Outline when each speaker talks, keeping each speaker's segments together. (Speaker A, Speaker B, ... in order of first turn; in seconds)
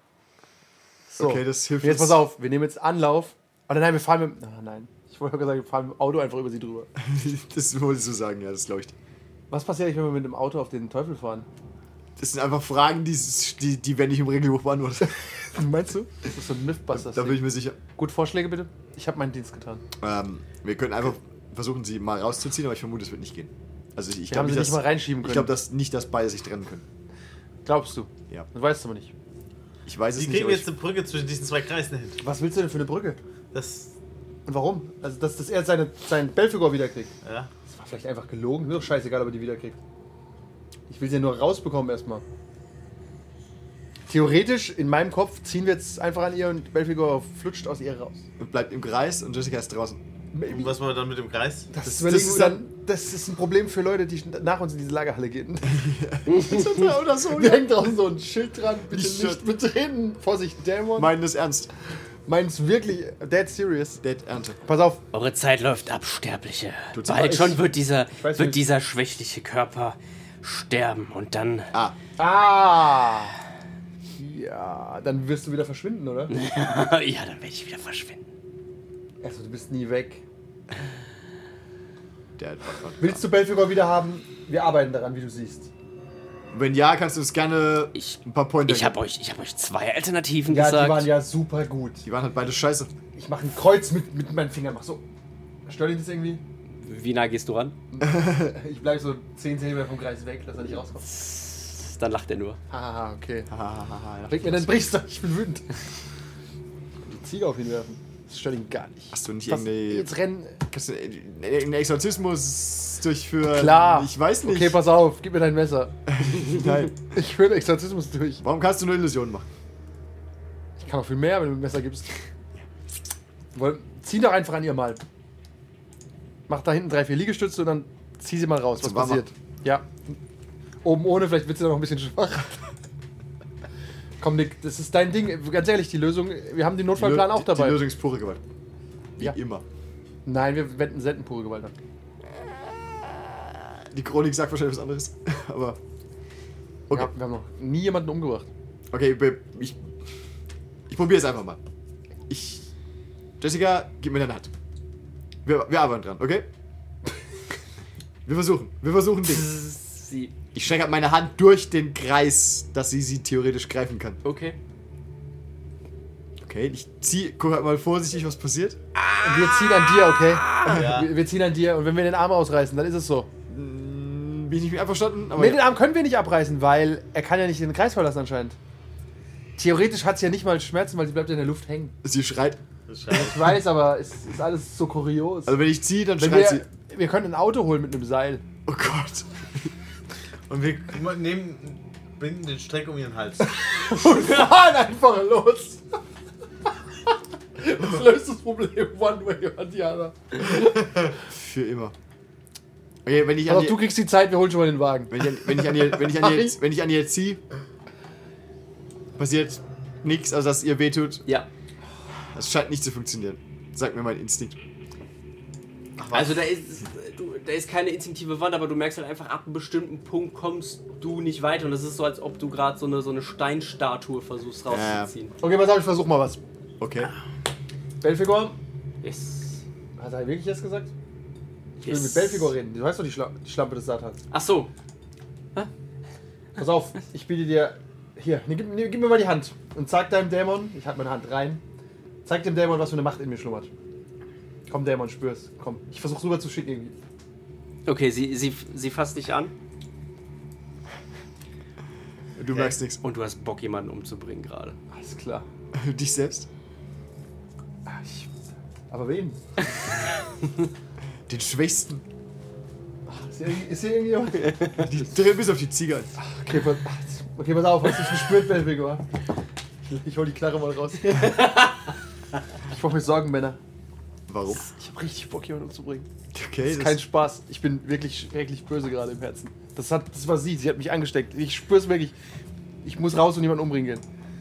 Speaker A: 1.1-6.9, 9.5-11.5, 15.1-19.8, 24.3-25.5, 27.6-29.1, 32.2-33.2, 34.5-37.1, 37.7-39.8, 40.9-42.2, 44.1-48.2, 50.3-50.7, 51.7-55.9, 57.3-61.1, 62.3-64.0, 64.6-65.0, 68.1-68.6, 72.2-73.4, 74.1-76.3, 79.2-80.2, 83.0-85.7, 90.5-92.1, 93.2-95.0, 95.7-96.4, 97.9-101.1, 102.7-103.5, 104.3-105.7, 107.1-110.6, 113.4-118.4, 120.8-122.2, 123.5-125.0, 126.5-130.1, 130.8-132.6, 134.2-137.9, 140.2-141.7, 146.9-148.5, 169.2-173.3, 175.4-178.6, 179.6-181.9, 183.1-185.6, 186.2-188.4, 193.7-195.8, 197.6-200.5, 203.5-206.6, 225.4-226.4, 228.0-228.6, 230.0-230.9, 231.8-234.2, 236.6-241.6, 242.2-243.7, 244.7-246.9, 254.9-255.4, 257.9-258.3, 258.9-259.4, 263.1-265.2, 266.2-269.0, 269.9-271.5, 272.7-273.6, 274.5-276.1, 276.6-282.1, 282.8-284.0
Speaker B: 1.2-2.2, 7.0-8.9, 12.2-15.2, 16.9-17.8, 20.0-26.8, 29.9-30.7, 48.4-50.0, 51.9-52.5, 55.6-57.8, 58.9-59.4, 61.0-61.7, 64.0-64.6, 66.9-67.6, 82.4-83.2, 86.5-89.0, 92.0-92.9, 103.5-104.9, 109.1-110.1, 110.6-114.8, 116.1-117.0, 118.4-119.5, 128.8-129.3, 136.9-138.4, 139.2-139.6, 143.9-145.8, 148.9-149.8, 150.9-151.6, 152.3-152.7, 153.4-154.5, 155.4-156.5, 158.3-159.5, 160.5-164.2, 166.4-168.8, 170.7-171.0, 173.5-175.6, 182.0-182.6, 185.5-186.7, 188.7-189.7, 201.3-201.9, 203.1-203.9, 205.1-207.4, 209.2-211.3, 212.3-214.6, 216.0-216.5, 224.7-225.1, 226.8-227.1, 252.4-253.0, 255.7-256.5, 261.3-262.0, 264.6-266.1, 274.3-274.6, 276.3-277.0
Speaker C: 30.1-32.2, 33.5-34.0, 37.2-37.5, 50.5-51.7, 170.7-171.1, 182.9-183.6, 190.5-193.6, 252.5-252.8
Speaker D: 65.1-71.7, 76.3-78.2, 88.0-91.2, 96.8-97.8, 101.0-102.6, 159.3-160.3, 164.2-164.6, 216.1-225.3, 229.0-229.6, 231.8-232.5, 234.3-234.7, 247.8-249.5, 253.0-254.8